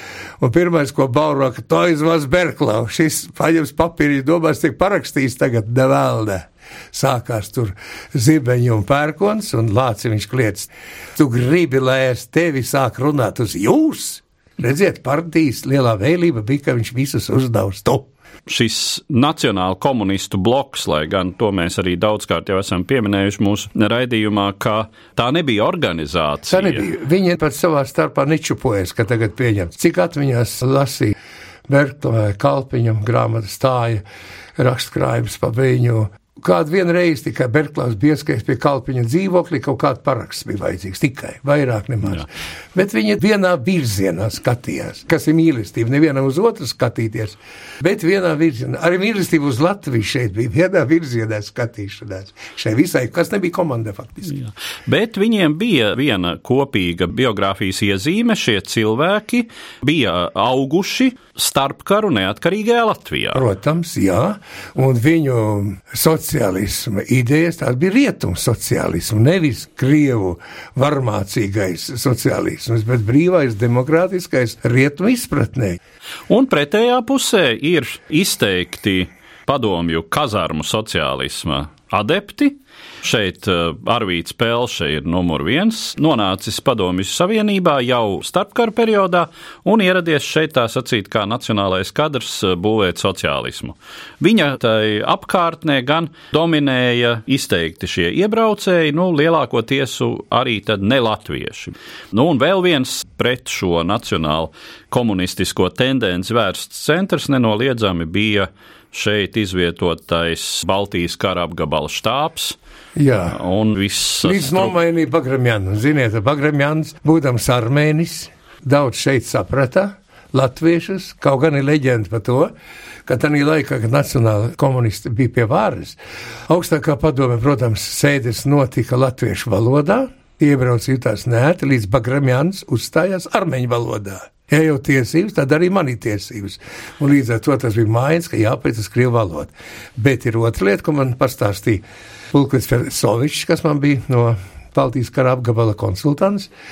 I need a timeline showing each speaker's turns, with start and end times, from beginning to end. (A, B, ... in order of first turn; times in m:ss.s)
0:00.4-0:18.1 A
0:18.5-0:26.8 B
0:26.5-0:31.2 A
0:31.7-0:34.0 A
0:34.6-0:54.4 A
0:54.3-1:03.4 B
1:03.3-1:15.8 A
1:16.3-1:52.6 B
1:53.0-1:53.4 A
1:53.3-1:54.7 B
1:54.2-2:02.5 A
2:03.0-2:26.5 A